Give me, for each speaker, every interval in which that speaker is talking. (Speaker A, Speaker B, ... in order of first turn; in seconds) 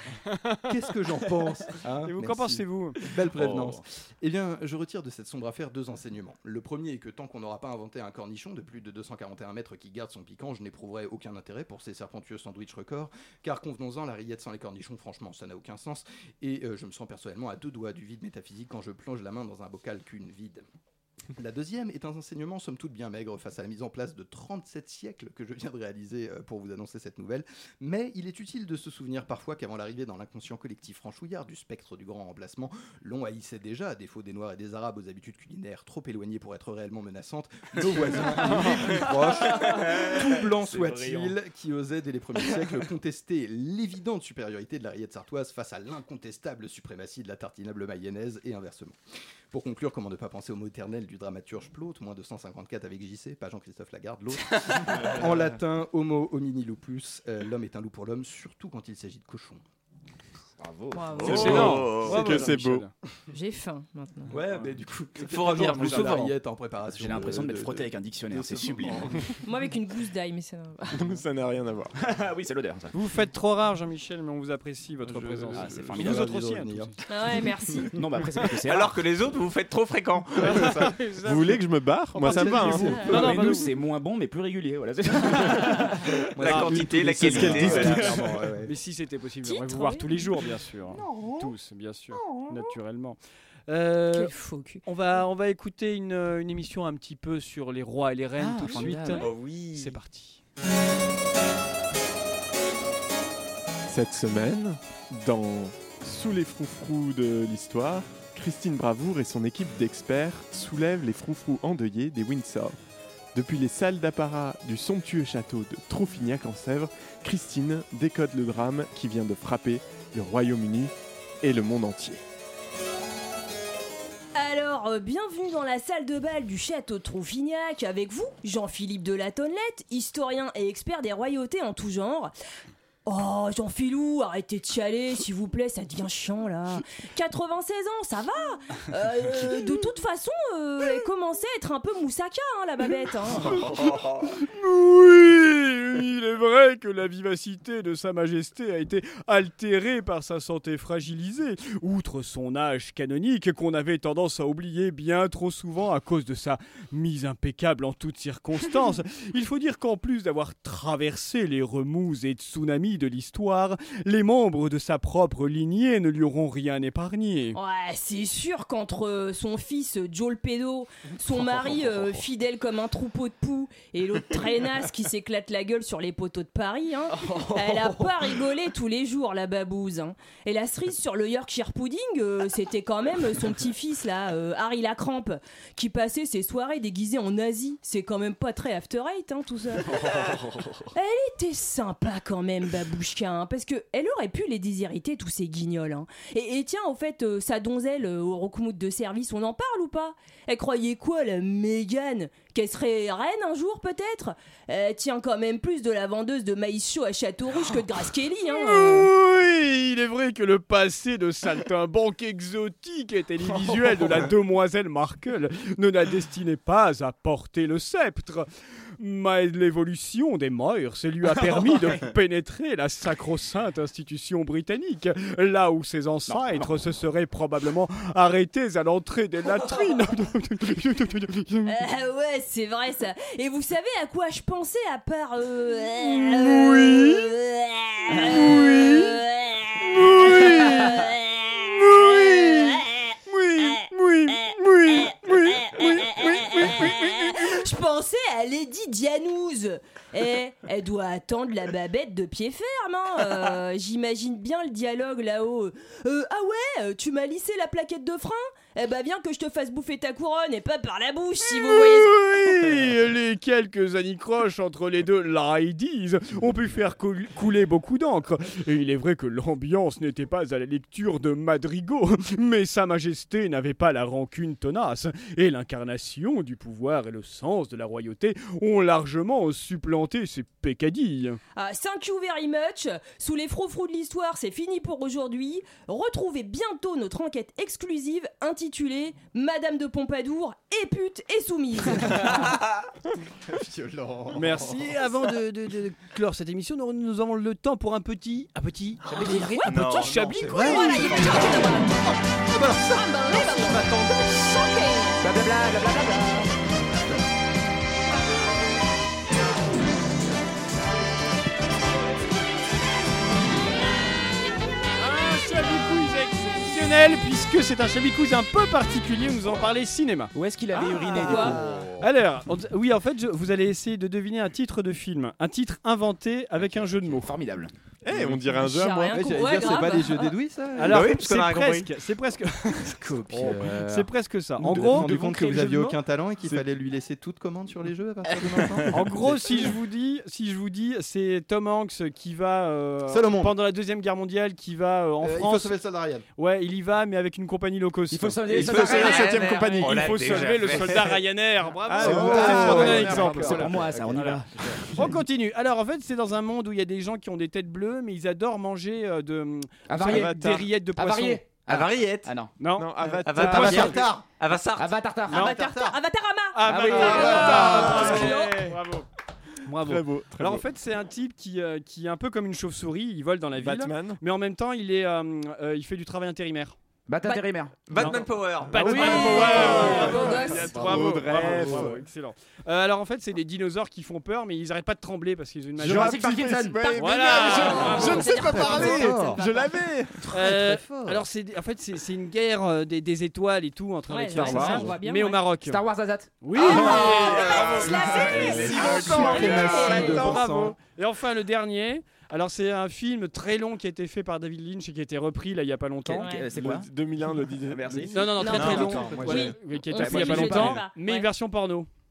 Speaker A: 0.6-20.7, 21.4-49.0, 49.5-59.6, 64.3-69.2, 75.1-77.0, 83.1-83.3, 86.3-88.7, 293.5-295.0, 300.4-304.4, 321.3-322.1, 329.1-331.1, 332.9-334.1, 334.7-339.8, 343.1-343.6, 345.2-346.3, 352.1-354.1, 363.4-364.2, 365.5-365.9, 388.0-389.4, 390.1-391.2, 396.7-400.8, 407.9-409.6
Speaker B: 2.0-3.0, 61.3-62.9, 72.9-77.0, 80.4-81.6, 82.1-83.7, 88.7-100.4, 143.4-167.6, 208.5-218.5, 219.0-231.7, 236.1-237.3, 238.1-239.2, 239.8-241.0, 241.8-247.6, 261.4-281.4, 294.3-301.4, 315.0-320.3, 321.3-327.3, 330.8-335.1, 338.9-345.8, 346.4-354.4, 354.9-361.4, 362.6-364.0, 365.3-365.6, 366.5-369.1, 369.6-376.8, 378.0-386.2, 387.0-388.4, 390.3-395.8, 396.4-397.8, 398.9-406.4, 408.1-411.9
Speaker C: 3.3-3.8, 38.3-41.4, 60.6-61.5, 66.9-69.3, 72.0-72.9, 75.5-76.4, 77.9-79.0, 82.7-88.4, 98.4-99.2, 177.1-178.2, 189.9-190.9, 213.6-214.0, 221.4-221.7, 226.3-226.8, 299.1-299.6, 305.2-306.5, 320.3-321.6, 326.7-327.7, 333.4-333.7, 334.6-336.0, 348.1-349.4, 352.0-355.2, 359.9-362.5, 364.7-365.5, 377.1-378.1, 378.8-379.6, 385.8-387.9, 395.6-396.4, 397.9-399.3, 406.1-406.9, 407.7-408.3, 409.9-410.8
Speaker D: 60.9-61.6, 63.3-64.4, 69.4-71.2, 77.1-78.0, 89.4-90.4, 94.1-94.8, 124.3-132.3, 133.1-143.7, 167.6-190.4, 190.9-209.1, 231.7-262.1, 281.6-292.5, 299.3-305.2, 320.8-321.6, 328.5-330.4, 365.3-368.8, 377.2-377.5, 379.0-381.0, 386.8-389.8, 394.1-395.6, 396.5-400.5, 406.2-406.5, 408.3-411.3
Speaker E: 61.2-62.4, 65.2-66.3, 78.7-80.8, 86.4-88.1, 99.2-100.0, 292.5-292.8, 299.6-300.3, 330.9-331.9, 348.5-351.2, 361.7-362.3, 363.2-365.9, 377.9-379.7, 408.5-409.0
Speaker F: 61.2-62.9, 70.9-72.0, 81.2-83.1, 103.9-112.8, 113.3-122.2, 328.0-329.7, 348.6-350.6, 351.8-353.8, 360.0-360.7, 362.7-363.9, 366.9-368.4, 369.8-370.6, 373.5-374.2, 378.7-382.0, 385.8-390.3, 394.4-394.9, 397.1-400.4, 406.5-408.3